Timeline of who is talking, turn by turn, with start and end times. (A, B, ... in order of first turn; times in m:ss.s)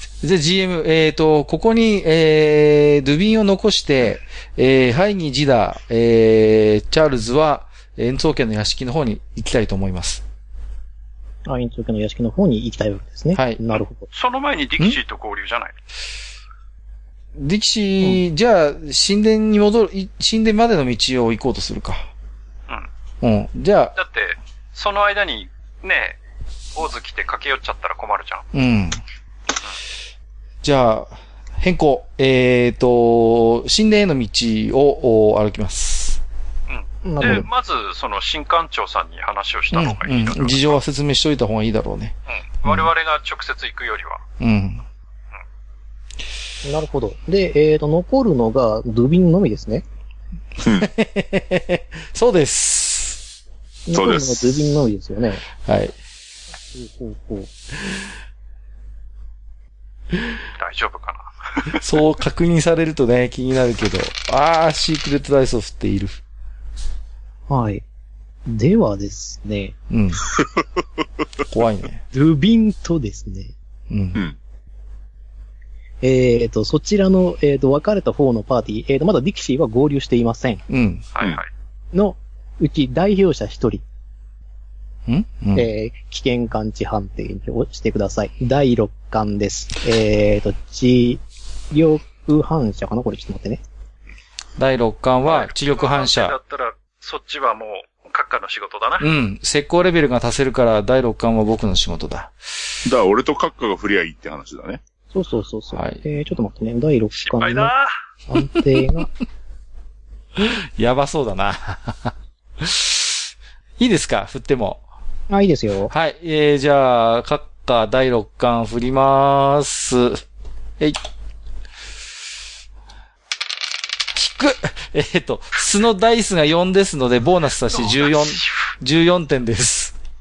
0:00.2-0:10.2 A
0:11.5-0:14.1 B
0:13.3-0:13.6 A
0:14.1-0:15.8 C
0:17.4-0:22.1 A
0:23.2-0:24.0 A
0:24.0-0:26.2 C
0:26.8-0:28.5 C
0:28.5-0:29.0 A
0:30.6-0:36.2 A
0:36.7-0:40.8 C
0:37.0-0:37.5 B
0:39.7-0:42.9 A
0:42.3-0:44.2 C
0:44.4-0:44.8 A
0:46.6-0:49.8 B
0:50.6-0:50.9 D
0:50.6-0:53.2 A
0:53.9-0:55.4 B
0:53.9-0:54.8 D
0:55.6-0:56.0 A
0:56.7-0:57.5 B
1:00.6-1:01.8 C
1:01.7-1:06.2 A
1:07.5-1:07.8 B
1:08.5-1:09.8 B
1:09.9-1:10.3 A
1:11.5-1:12.0 A
1:12.1-1:13.5 B
1:13.9-1:14.2 A
1:16.0-1:20.6 B
1:20.7-1:21.1 A
1:21.1-1:21.5 C
1:21.9-1:23.8 B
1:25.1-1:25.7 A
1:25.5-1:33.6 B
1:34.6-1:36.4 A
1:35.3-1:39.1 C
1:39.0-1:42.3 A
1:42.8-1:44.8 D
1:45.1-1:47.7 B
1:45.7-1:46.0 A
1:47.2-1:47.9 C
1:48.3-1:49.1 B
1:50.4-1:54.8 A
1:55.3-1:55.9 B
1:55.9-2:00.2 A
2:04.1-2:10.0 A
2:07.7-2:08.5 C